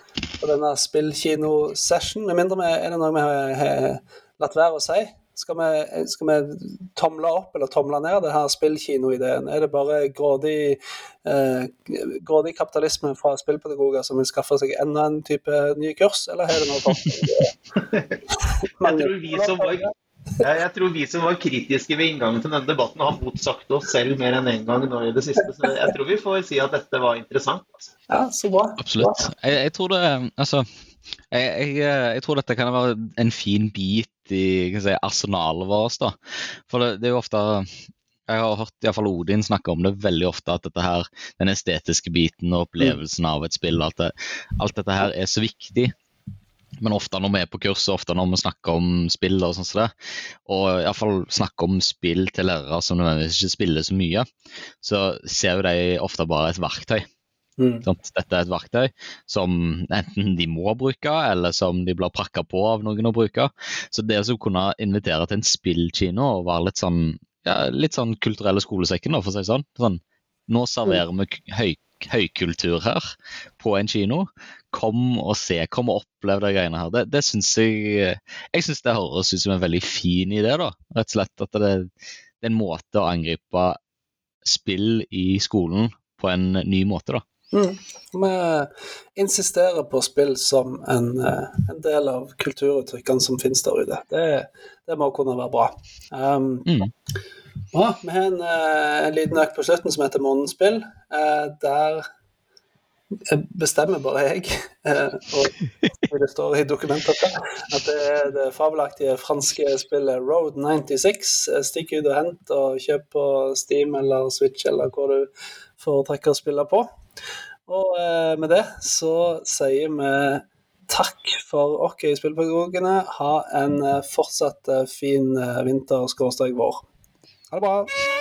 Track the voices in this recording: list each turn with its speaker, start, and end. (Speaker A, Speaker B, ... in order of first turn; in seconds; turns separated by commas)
Speaker A: 0.4-17.5, Speaker A: 18.8-19.9, Speaker B: 18.8-19.8, Speaker B: 20.4-27.9, Speaker A: 28.1-29.3, Speaker C: 28.8-30.7, Speaker C: 31.3-36.2, Speaker C: 36.7-37.7, Speaker C: 38.3-45.9, Speaker C: 46.8-49.9, Speaker C: 50.5-54.3, Speaker C: 54.8-57.0, Speaker A: 57.6-57.9, Speaker C: 57.8-81.9, Speaker C: 82.4-83.8, Speaker C: 84.5-87.2, Speaker A: 87.5-96.7, Speaker C: 96.7-96.9, Speaker A: 97.7-102.0, Speaker A: 103.3-116.9, Speaker A: 117.7-126.9, Speaker A: 127.5-127.9